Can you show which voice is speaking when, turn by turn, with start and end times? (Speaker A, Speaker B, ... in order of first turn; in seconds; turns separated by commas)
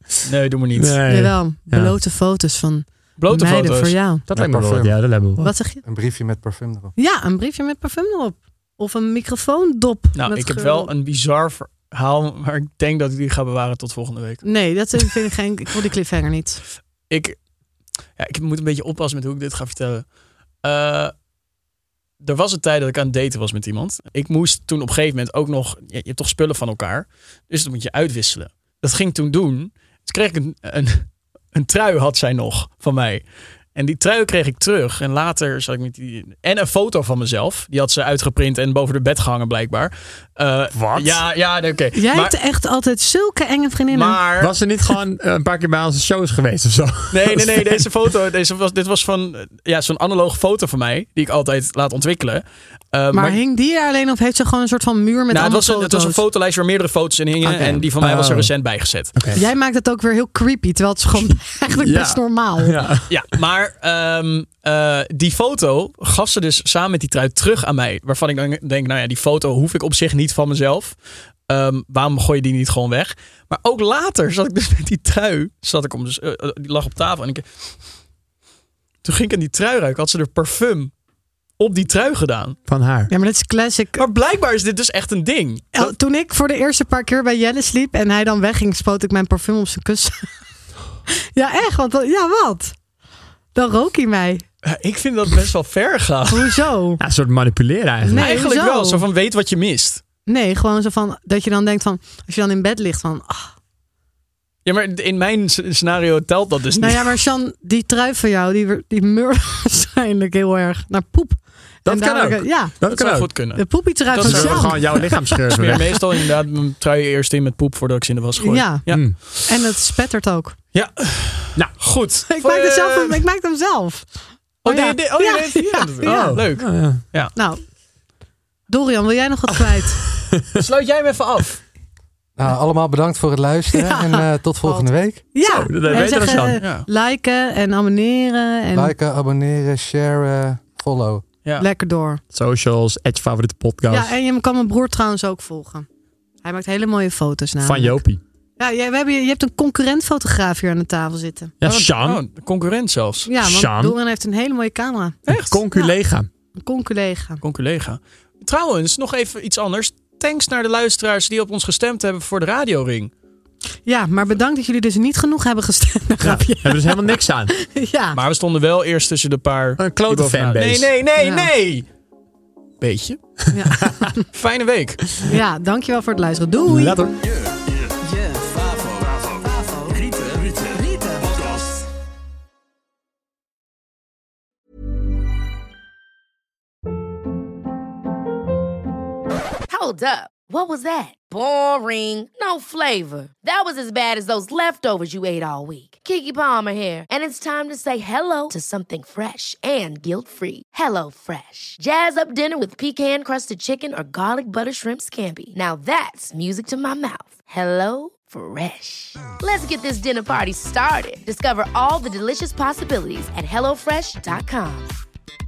Speaker A: 0.2-1.0, Speaker B: 0.8-1.9, Speaker C: 1.1-4.3, Speaker A: 3.2-4.0, Speaker B: 4.3-5.5, Speaker D: 4.3-5.2, Speaker C: 5.4-5.8, Speaker D: 5.8-6.9, Speaker C: 7.0-10.9, Speaker A: 10.1-15.1, Speaker C: 14.4-16.6, Speaker A: 17.1-17.4, Speaker A: 18.1-21.1, Speaker A: 22.2-42.4, Speaker B: 40.7-41.2, Speaker C: 42.0-44.2, Speaker A: 43.9-44.5, Speaker B: 44.4-47.9, Speaker A: 47.1-53.4, Speaker C: 53.1-56.2, Speaker A: 55.3-59.1, Speaker B: 57.4-58.5, Speaker B: 59.2-59.4, Speaker C: 59.3-62.8, Speaker B: 61.2-63.1, Speaker A: 63.1-77.9, Speaker A: 79.0-80.9, Speaker A: 81.6-82.6, Speaker B: 82.7-83.1, Speaker C: 83.1-84.0, Speaker A: 84.0-86.0, Speaker C: 85.7-90.3, Speaker C: 91.3-92.8, Speaker C: 93.5-94.4, Speaker A: 94.6-96.6, Speaker C: 96.3-97.0, Speaker B: 97.0-98.3, Speaker C: 98.0-99.0, Speaker A: 98.2-100.0, Speaker C: 100.3-103.5, Speaker A: 104.7-107.2, Speaker C: 106.8-115.8, Speaker B: 111.8-113.4, Speaker A: 112.9-119.5, Speaker B: 114.2-116.2, Speaker C: 118.4-120.6, Speaker B: 118.9-119.2, Speaker A: 120.7-123.2, Speaker C: 122.3-126.4, Speaker A: 124.6-127.3, Speaker B: 126.0-127.0, Speaker C: 127.3-127.6, Speaker C: 128.7-130.0, Speaker A: 130.6-131.6, Speaker D: 132.4-135.3, Speaker C: 133.7-138.9, Speaker B: 135.5-136.6, Speaker A: 135.9-136.9, Speaker D: 138.7-141.2, Speaker C: 141.6-142.2, Speaker B: 142.3-144.1, Speaker C: 143.9-145.9, Speaker C: 146.4-148.0, Speaker B: 147.6-148.2, Speaker C: 148.6-151.5, Speaker B: 151.6-152.2, Speaker A: 151.7-153.3, Speaker C: 153.2-155.2, Speaker B: 153.4-154.0, Speaker A: 155.3-155.6, Speaker B: 155.3-156.3, Speaker C: 156.6-157.4, Speaker A: 157.4-163.1, Speaker C: 163.8-168.2, Speaker B: 166.2-167.5, Speaker A: 168.1-171.9, Speaker B: 169.8-170.9, Speaker C: 171.2-171.5, Speaker A: 172.8-173.5, Speaker C: 173.5-174.3, Speaker A: 174.3-175.2, Speaker C: 175.3-177.0, Speaker B: 176.7-177.2, Speaker A: 177.2-179.3, Speaker A: 179.9-180.8, Speaker E: 189.7-214.9